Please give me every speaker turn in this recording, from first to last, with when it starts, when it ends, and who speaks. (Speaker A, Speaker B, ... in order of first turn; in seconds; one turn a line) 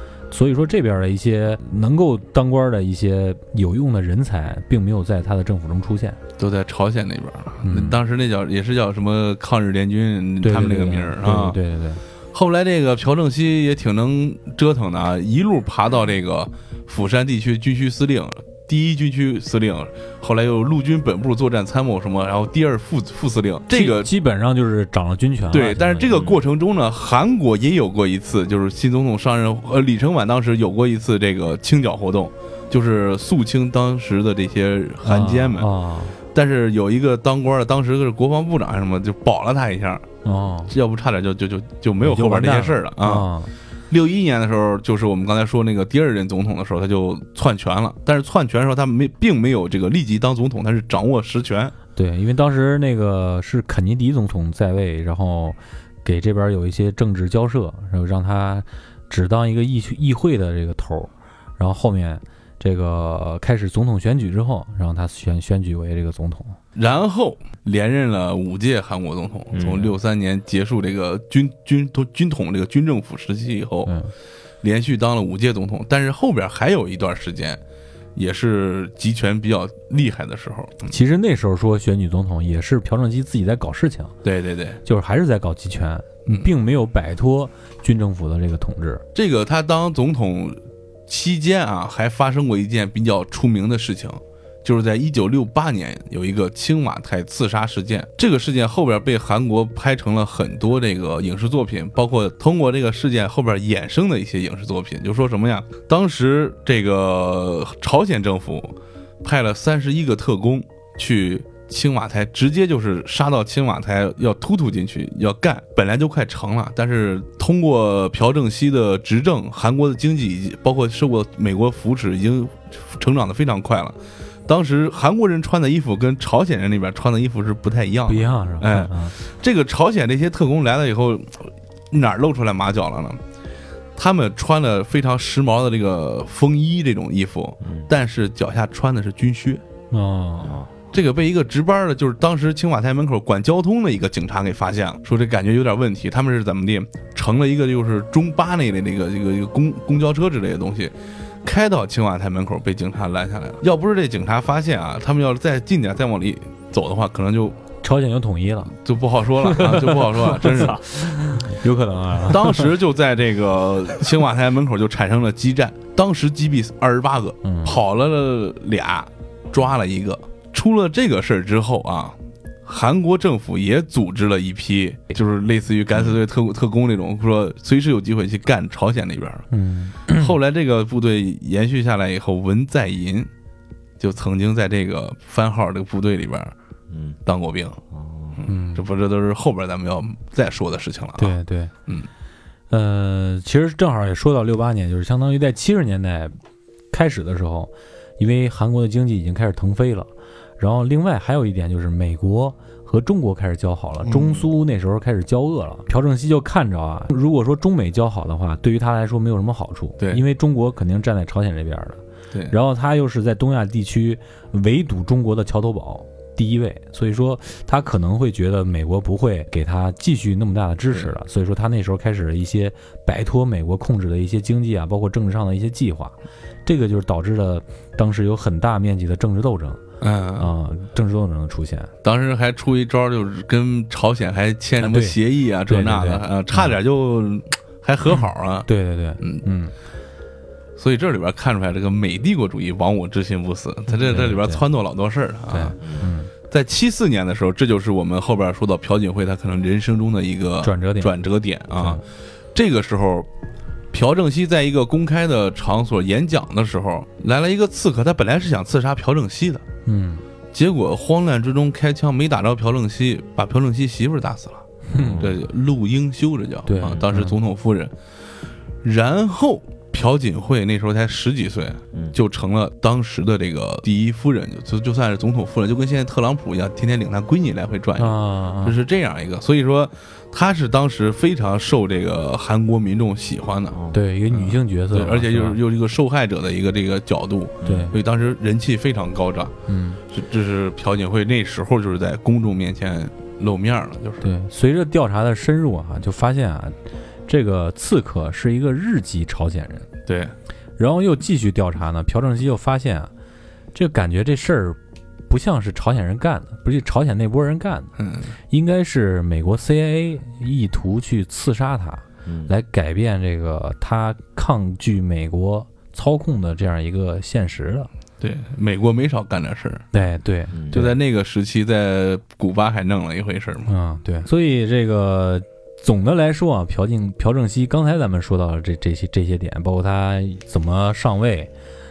Speaker A: 0.3-6.2
Speaker B: 6.4-11.6
Speaker A: 7.6-8.0
Speaker A: 10.4-12.0
Speaker B: 12.3-24.1
Speaker A: 23.7-26.1
Speaker B: 25.5-35.7
Speaker C: 26.1-26.4
Speaker A: 35.0-36.2
Speaker B: 36.3-40.0
Speaker A: 40.2-40.7
Speaker B: 40.7-43.3
Speaker A: 42.0-43.5
Speaker B: 43.9-51.7
Speaker A: 52.0-66.6
Speaker B: 66.8-73.9
Speaker C: 69.5-69.9
Speaker A: 73.8-74.1
Speaker B: 74.6-77.6
Speaker B: 78.2-80.9
Speaker A: 80.9-84.1
Speaker B: 84.2-84.8
Speaker A: 84.8-89.0
Speaker B: 89.2-133.2
Speaker A: 128.1-129.1
Speaker B: 134.0-139.6
Speaker C: 137.6-137.9
Speaker A: 139.9-140.6
Speaker C: 140.4-140.7
Speaker B: 140.9-157.6
Speaker A: 157.8-158.8
Speaker B: 158.7-160.8
Speaker A: 159.4-162.7
Speaker B: 162.2-179.5
Speaker A: 167.4-167.8
Speaker A: 179.5-180.3
Speaker B: 180.1-183.3
Speaker B: 184.0-186.6
Speaker C: 186.9-187.2
Speaker B: 187.3-187.8
Speaker C: 187.9-188.4
Speaker B: 188.4-192.1
Speaker A: 188.5-188.8
Speaker A: 191.2-191.7
Speaker A: 192.7-196.4
Speaker A: 196.9-229.8
Speaker B: 204.0-204.4
Speaker B: 230.0-230.5
Speaker A: 230.4-231.9
Speaker B: 232.0-238.7
Speaker A: 234.8-236.7
Speaker A: 238.7-239.7
Speaker B: 239.2-239.4
Speaker B: 240.8-245.8
Speaker A: 244.0-244.6
Speaker A: 245.5-246.3
Speaker C: 245.8-246.1
Speaker B: 246.4-252.0
Speaker A: 250.6-251.1
Speaker A: 251.7-252.0
Speaker B: 252.5-253.3
Speaker B: 253.9-259.6
Speaker A: 259.9-260.2
Speaker B: 260.5-267.9
Speaker A: 264.9-265.3
Speaker C: 264.9-265.4
Speaker A: 266.7-267.4
Speaker B: 268.8-283.8
Speaker A: 278.0-278.8
Speaker C: 283.7-284.0
Speaker A: 283.9-285.6
Speaker B: 284.3-289.5
Speaker C: 287.6-287.9
Speaker A: 287.6-287.9
Speaker A: 289.7-290.0
Speaker B: 290.1-294.3
Speaker A: 294.2-296.8
Speaker A: 297.3-299.9
Speaker B: 300.1-300.3
Speaker A: 300.8-303.1
Speaker A: 303.7-307.9
Speaker B: 308.0-308.3
Speaker A: 308.5-317.9
Speaker C: 312.3-312.5
Speaker B: 318.2-319.9
Speaker A: 319.9-320.9
Speaker C: 320.5-320.9
Speaker B: 320.7-323.7
Speaker A: 323.7-331.5